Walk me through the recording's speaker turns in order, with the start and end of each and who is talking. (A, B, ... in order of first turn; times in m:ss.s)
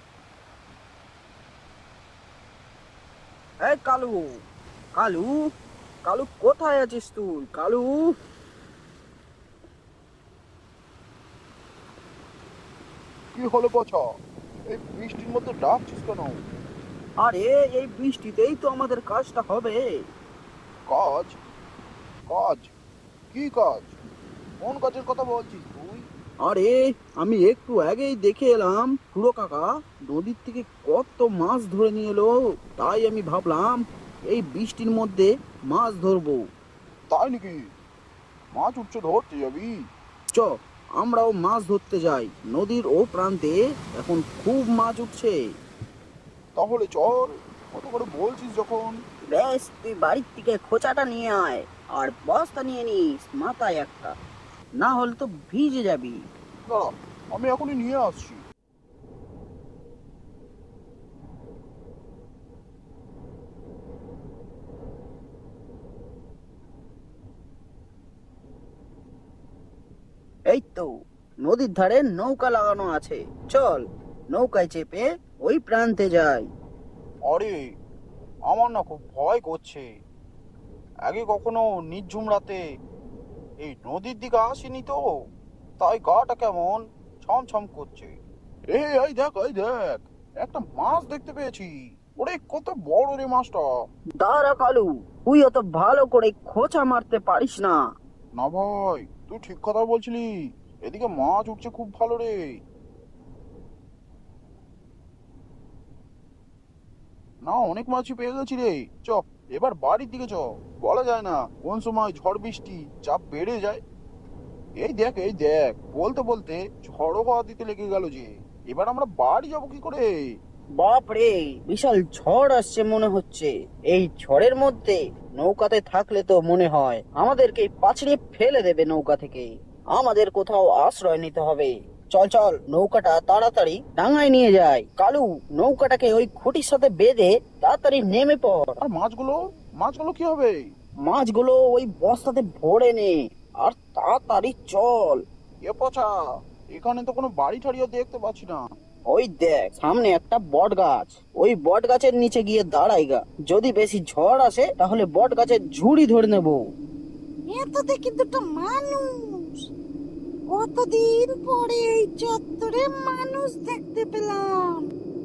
0:03.6-0:04.2 A
0:05.0-0:05.3 A
0:06.1-0:08.0 A
0:13.4-0:14.0 B
0:14.7-0:16.4 B
0:17.2-0:19.8 A
0:20.9-0:21.3 B
0:22.3-0:22.6 B
0:23.3-0:23.9 B
0:24.6-0:26.1 B
0:26.4-0:36.4 A
0:37.1-0:37.6 B
0:38.6-0:39.7 B
0:41.0-0:45.4 A
0:46.6-0:49.0 B
0:49.3-0:54.1 A
0:54.8-0:56.2 A
0:56.7-0:58.4 B
1:10.5-1:10.9 A
1:11.4-1:16.4 A
1:18.5-1:19.8 B
1:21.1-1:22.4 B
1:22.0-1:22.6 A
1:24.0-1:24.7 A
1:25.8-1:28.1 A
1:28.7-1:31.7 B
1:32.2-1:33.6 B
1:34.2-1:37.8 A
1:38.4-1:40.2 B
1:40.9-1:42.3 B
1:47.5-1:53.8 B
1:54.8-2:00.0 B
2:00.8-2:18.8 A
2:18.9-2:20.5 B
2:21.1-2:25.2 A
2:25.7-2:26.1 B
2:26.8-2:28.6 B
2:29.1-2:36.6 A
2:37.5-2:39.5 C
2:40.5-2:44.8 C